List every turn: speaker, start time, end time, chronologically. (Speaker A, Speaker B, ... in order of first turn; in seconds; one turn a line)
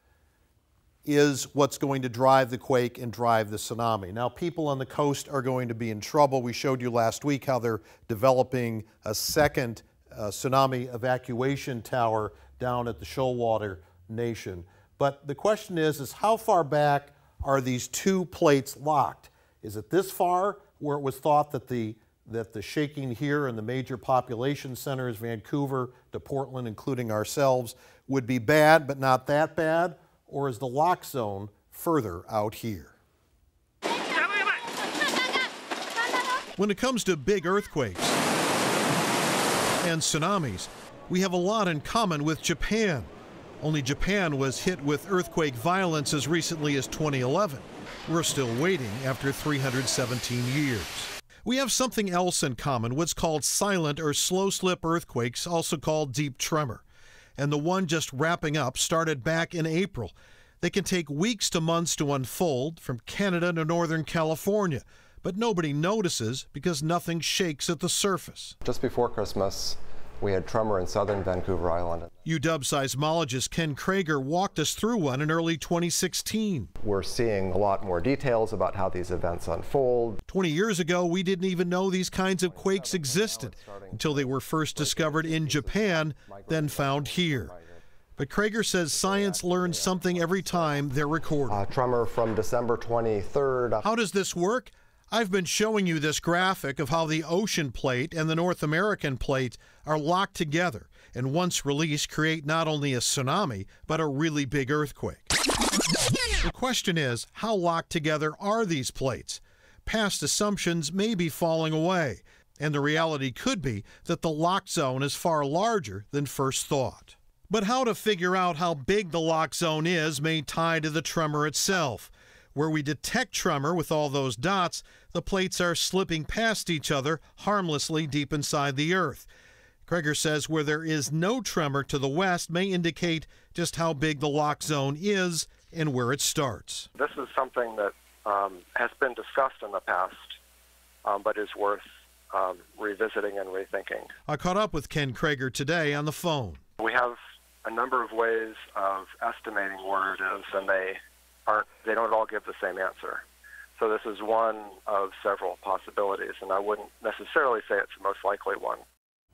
Speaker A: 1.1-33.0
Speaker A: 36.6-38.2
Speaker A: 39.8-43.1
Speaker A: 43.6-56.8
Speaker A: 57.4-68.6
Speaker B: 68.7-72.1
Speaker A: 72.2-76.7
Speaker B: 76.8-80.2
Speaker A: 80.3-87.5
Speaker B: 82.4-87.8
Speaker A: 88.2-91.6
Speaker B: 88.9-90.8
Speaker B: 91.5-93.9
Speaker A: 93.8-105.3
Speaker A: 106.4-129.3
Speaker A: 129.9-136.9
Speaker C: 137.0-140.4
Speaker C: 141.0-144.1
Speaker A: 144.3-146.6
Speaker C: 146.8-153.2
Speaker C: 153.8-158.8